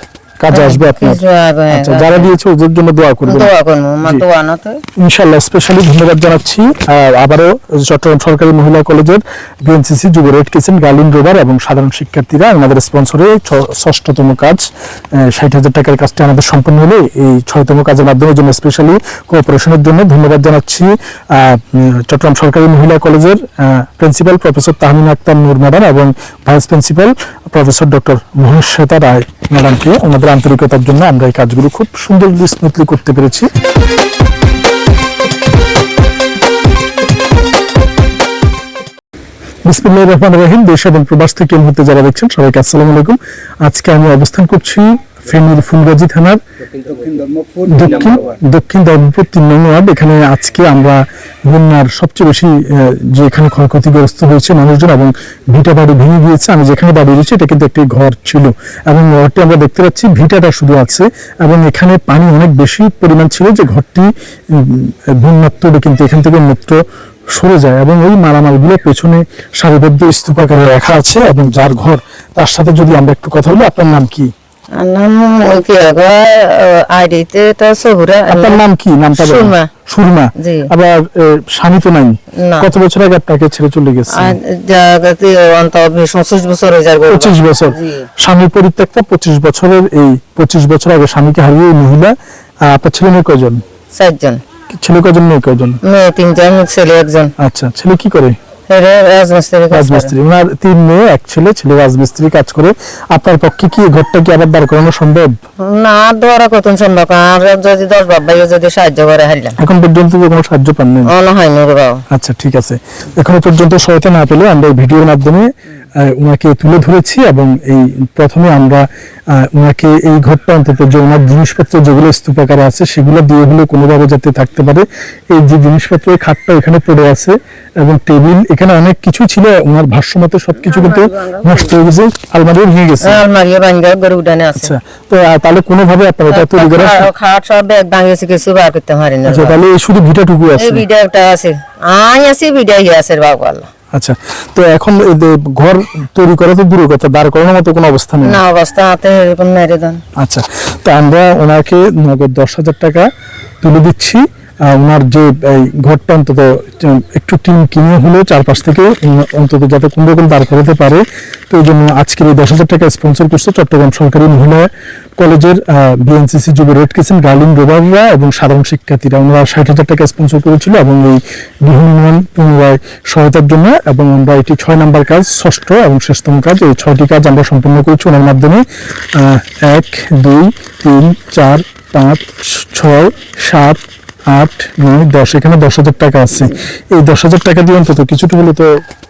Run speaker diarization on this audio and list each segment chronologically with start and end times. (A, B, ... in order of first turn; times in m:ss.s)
0:00.4-0:03.5 A
0:00.5-0:02.3 B
0:03.2-0:04.8 B
0:05.0-0:14.6 A
0:15.2-0:33.5 A
0:39.7-0:46.4 A
0:47.6-1:14.3 A
1:14.8-1:18.6 B
1:18.3-1:24.4 A
1:19.1-1:19.7 B
1:20.4-1:20.7 B
1:22.4-1:22.7 B
1:24.1-1:28.1 B
1:27.1-1:32.1 A
1:32.6-1:33.6 A
1:34.0-1:34.4 B
1:34.7-1:35.8 A
1:35.8-1:37.3 B
1:37.4-1:38.4 A
1:38.7-1:40.1 B
1:39.7-1:45.3 A
1:45.6-1:49.6 B
1:49.6-1:51.1 A
1:51.1-1:52.0 B
1:52.1-2:13.2 A
2:10.6-2:11.7 B
2:13.0-2:14.7 B
2:14.6-2:17.1 A
2:16.3-2:19.6 B
2:19.2-2:20.8 A
2:20.5-2:23.7 B
2:23.9-2:28.4 A
2:28.2-2:30.0 B
2:30.2-2:33.1 A
2:33.6-3:08.7 A